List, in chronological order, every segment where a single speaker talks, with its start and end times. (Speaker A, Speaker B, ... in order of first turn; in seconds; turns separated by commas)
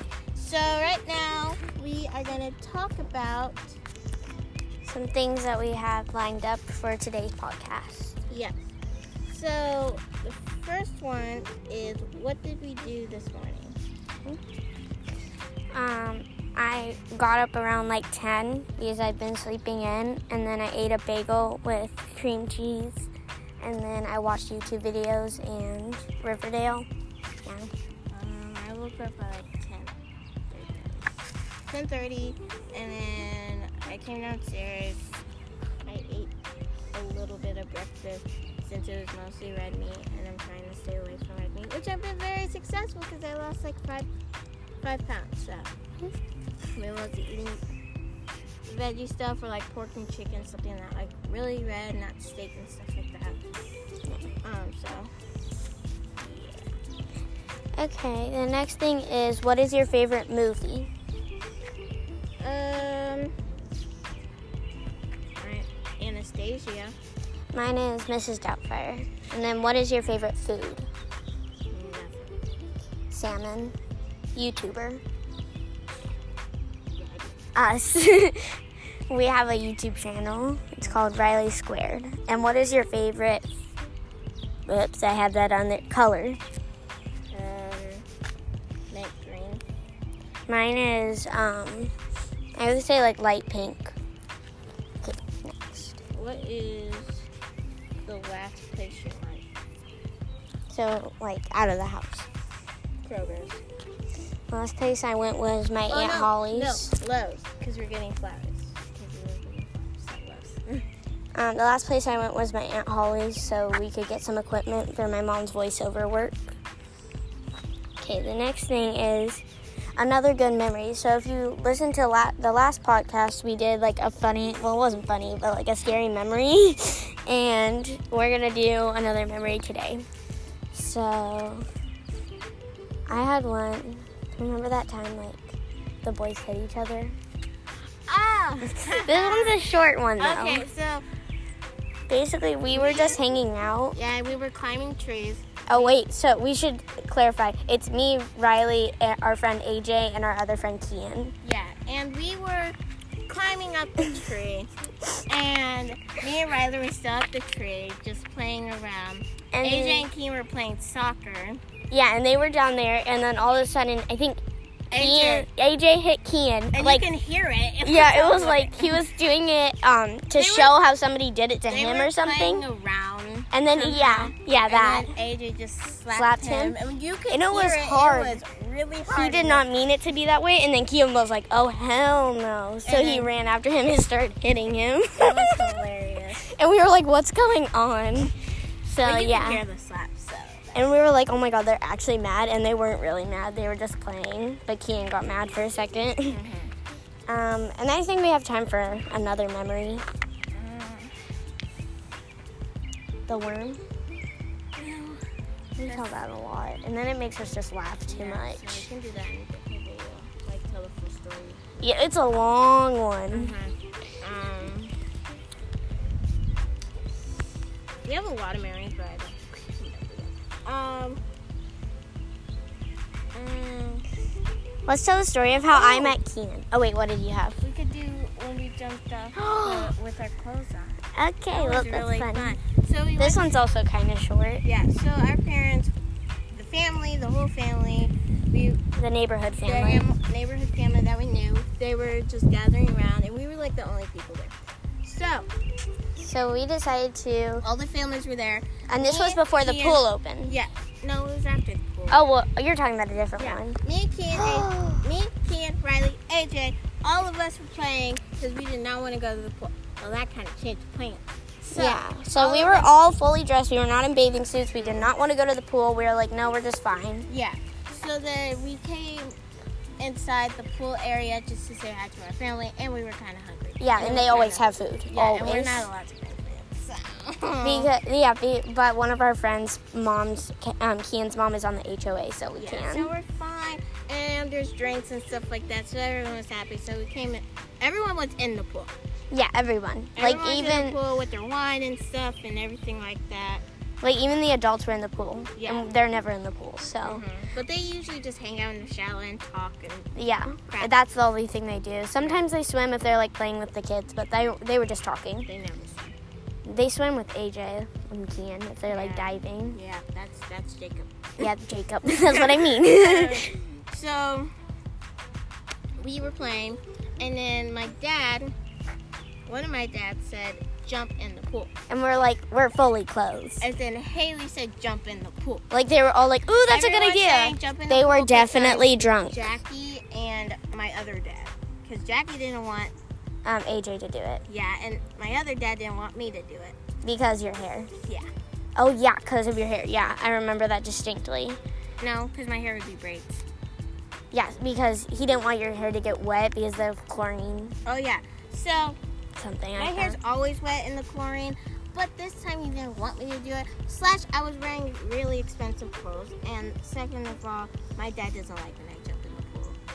Speaker A: 0.3-3.8, Speaker B: 4.8-8.2, Speaker A: 8.3-8.7, Speaker A: 9.3-13.8, Speaker B: 15.7-23.1, Speaker B: 23.6-26.9, Speaker B: 27.4-27.7, Speaker A: 28.1-29.9, Speaker A: 30.5-35.2, Speaker A: 35.8-36.3, Speaker A: 36.9-44.1, Speaker A: 44.8-45.7, Speaker A: 46.8-47.6, Speaker A: 48.6-53.4, Speaker A: 54.4-55.1, Speaker A: 56.2-56.7, Speaker B: 57.8-60.9, Speaker A: 62.4-63.3, Speaker A: 65.3-66.9, Speaker B: 67.5-70.9, Speaker A: 71.7-72.3, Speaker B: 73.1-73.7, Speaker B: 74.3-75.0, Speaker A: 77.0-77.4, Speaker B: 77.5-83.5, Speaker A: 80.8-81.1, Speaker B: 84.7-86.4, Speaker A: 87.3-88.0, Speaker A: 88.9-89.6, Speaker B: 90.5-91.9, Speaker B: 92.5-93.9, Speaker B: 95.0-96.0, Speaker A: 96.1-97.3, Speaker A: 98.0-99.4, Speaker B: 100.7-102.3, Speaker A: 103.0-103.6, Speaker B: 104.5-106.9, Speaker A: 105.9-110.8, Speaker B: 111.3-116.5, Speaker B: 118.0-119.4, Speaker B: 120.0-130.0, Speaker B: 130.7-131.7, Speaker B: 133.1-137.1, Speaker A: 138.1-141.0, Speaker B: 138.6-140.6, Speaker B: 142.1-144.0, Speaker A: 142.7-143.2, Speaker A: 143.9-145.9, Speaker B: 145.7-151.3, Speaker A: 151.4-152.8, Speaker A: 153.3-154.7, Speaker A: 155.2-161.6, Speaker B: 159.5-160.1, Speaker B: 161.9-164.4, Speaker A: 164.9-165.5, Speaker B: 164.9-167.1, Speaker A: 166.7-169.0, Speaker B: 167.8-172.6, Speaker A: 170.3-170.7, Speaker A: 171.7-179.7, Speaker B: 173.5-175.1, Speaker B: 176.1-176.8, Speaker B: 177.3-178.4, Speaker B: 179.1-185.6, Speaker A: 182.8-183.3, Speaker A: 185.2-186.4, Speaker B: 186.4-188.3, Speaker B: 188.8-189.6, Speaker A: 189.0-190.9, Speaker B: 190.7-196.4, Speaker A: 196.3-196.7, Speaker B: 197.3-200.0, Speaker A: 200.5-201.1, Speaker B: 203.3-203.8, Speaker A: 204.8-205.2, Speaker B: 205.8-208.9, Speaker A: 205.8-206.1, Speaker A: 208.1-211.6, Speaker B: 211.8-213.5, Speaker A: 213.3-214.9, Speaker A: 218.0-221.2, Speaker A: 223.3-224.0, Speaker B: 224.8-227.6, Speaker A: 225.7-226.2, Speaker A: 227.6-231.0, Speaker B: 229.3-229.9, Speaker B: 231.1-232.6, Speaker A: 231.5-233.5, Speaker B: 233.2-234.6, Speaker A: 234.6-235.9, Speaker A: 236.5-238.8, Speaker B: 239.0-240.1, Speaker A: 239.6-245.5, Speaker B: 246.2-247.7, Speaker A: 247.6-252.2, Speaker B: 248.9-250.5, Speaker B: 252.1-253.8, Speaker A: 253.4-262.9, Speaker B: 254.3-255.1, Speaker B: 261.7-267.3, Speaker A: 264.7-265.1, Speaker A: 267.3-269.3, Speaker A: 270.0-277.9, Speaker B: 273.8-275.9, Speaker B: 277.6-283.1, Speaker A: 282.6-288.9, Speaker B: 289.3-291.0, Speaker A: 290.1-293.6, Speaker B: 294.0-297.2, Speaker A: 295.5-295.9, Speaker A: 297.0-300.1, Speaker B: 300.1-305.5, Speaker A: 302.2-302.4, Speaker A: 305.4-306.1, Speaker B: 306.6-309.8, Speaker A: 308.9-311.5, Speaker B: 311.4-313.5, Speaker A: 312.0-314.5, Speaker A: 316.0-318.5, Speaker A: 319.4-321.7, Speaker B: 321.9-323.6, Speaker A: 323.6-325.6, Speaker B: 325.7-329.5, Speaker A: 326.7-332.9, Speaker B: 333.4-334.4, Speaker A: 334.5-336.8, Speaker B: 337.0-337.9, Speaker B: 338.8-341.6, Speaker A: 342.0-343.4, Speaker B: 344.3-347.8, Speaker A: 347.8-349.0, Speaker B: 349.4-350.2, Speaker A: 349.7-359.8